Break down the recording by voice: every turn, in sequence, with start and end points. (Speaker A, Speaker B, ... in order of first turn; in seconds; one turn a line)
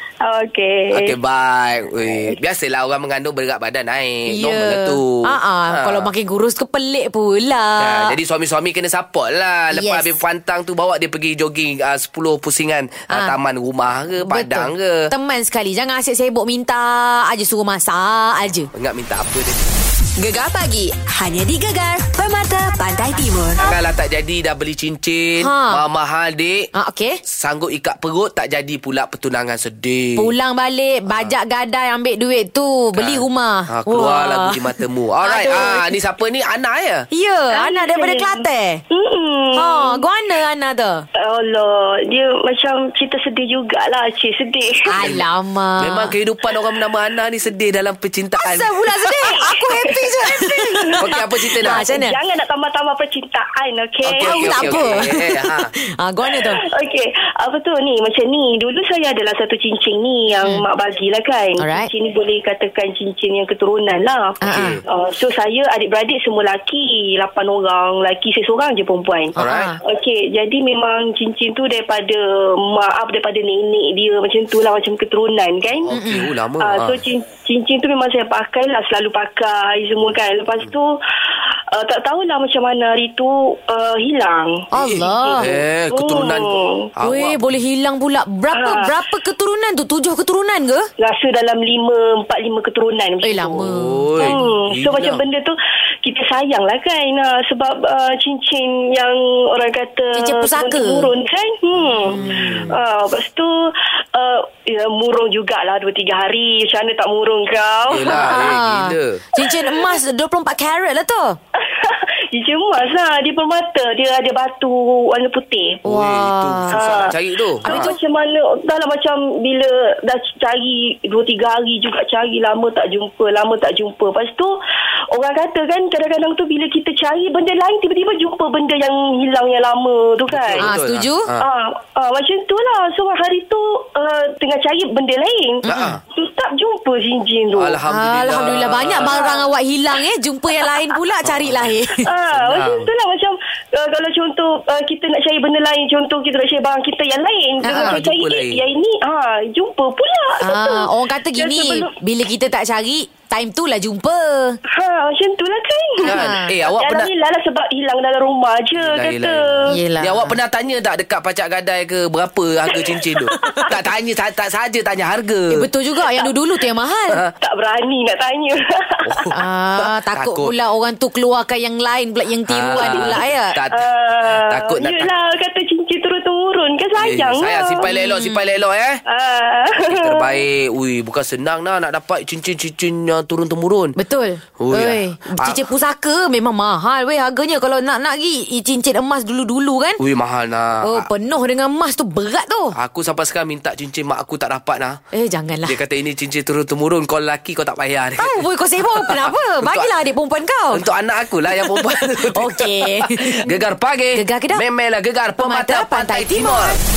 Speaker A: 0.2-1.1
Speaker B: 0.9-6.1
Speaker C: 4.3-8.2
Speaker B: 7.8-15.1
Speaker C: 9.7-10.1
Speaker C: 13.1-13.3
Speaker C: 14.2-18.7
Speaker B: 18.7-19.8
Speaker D: 20.2-23.6
Speaker B: 23.6-26.7
Speaker C: 25.4-25.8
Speaker C: 26.7-27.2
Speaker B: 27.2-30.3
Speaker C: 30.2-34.6
Speaker B: 31.1-31.3
Speaker B: 32.9-37.0
Speaker C: 35.2-35.9
Speaker C: 37.1-38.8
Speaker A: 37.5-40.0
Speaker C: 39.5-41.0
Speaker A: 41.2-45.0
Speaker C: 44.9-46.1
Speaker B: 45.0-45.2
Speaker B: 45.8-48.7
Speaker C: 48.4-51.1
Speaker A: 49.2-55.0
Speaker B: 51.0-51.8
Speaker C: 51.6-52.2
Speaker B: 54.0-55.7
Speaker C: 54.2-56.6
Speaker A: 56.3-75.9
Speaker C: 61.6-61.9
Speaker C: 64.4-64.8
Speaker B: 64.4-64.8
Speaker C: 69.4-69.8
Speaker B: 69.4-69.7
Speaker B: 75.9-77.0
Speaker C: 75.9-76.3
Speaker A: 76.6-81.0
Speaker A: 81.7-84.6
Speaker C: 84.7-85.5
Speaker A: 85.2-86.8
Speaker B: 85.4-87.4
Speaker C: 87.0-90.9
Speaker A: 88.5-88.9
Speaker A: 91.0-108.5
Speaker C: 93.2-94.5
Speaker B: 93.6-95.2
Speaker C: 100.1-101.1
Speaker C: 102.1-102.7
Speaker B: 102.2-102.7
Speaker B: 107.8-109.2
Speaker C: 108.1-111.4
Speaker A: 109.4-110.0
Speaker A: 111.6-115.8
Speaker B: 115.8-117.9
Speaker C: 115.8-116.7
Speaker A: 116.7-124.5
Speaker C: 117.6-117.9
Speaker A: 125.1-130.7
Speaker B: 130.3-131.5
Speaker C: 130.6-131.3
Speaker A: 131.4-137.8
Speaker C: 135.6-135.9
Speaker B: 135.7-136.0
Speaker B: 137.6-139.2
Speaker C: 137.9-142.1
Speaker A: 139.0-139.5
Speaker B: 141.2-141.6
Speaker A: 142.0-151.9
Speaker B: 142.3-142.9
Speaker C: 147.6-148.0
Speaker B: 147.8-148.6
Speaker C: 150.4-154.6
Speaker A: 154.7-159.7
Speaker C: 156.0-156.5
Speaker B: 156.0-157.1
Speaker B: 158.8-165.7
Speaker C: 159.7-160.3
Speaker A: 162.7-163.7
Speaker C: 163.3-163.7
Speaker C: 165.5-167.2
Speaker A: 167.4-169.2
Speaker B: 169.1-170.5
Speaker C: 169.3-173.5
Speaker B: 172.5-175.1
Speaker A: 172.8-173.1
Speaker A: 173.7-177.9
Speaker B: 176.9-179.0
Speaker C: 177.8-178.4
Speaker A: 179.1-180.4
Speaker B: 179.8-183.9
Speaker C: 184.0-190.0
Speaker B: 184.6-185.6
Speaker B: 190.0-191.1
Speaker C: 190.8-192.7
Speaker B: 192.7-195.0
Speaker C: 195.1-195.8
Speaker B: 195.7-199.9
Speaker C: 198.2-200.8
Speaker B: 200.7-206.8
Speaker C: 201.6-203.6
Speaker C: 204.1-204.6
Speaker C: 205.4-206.8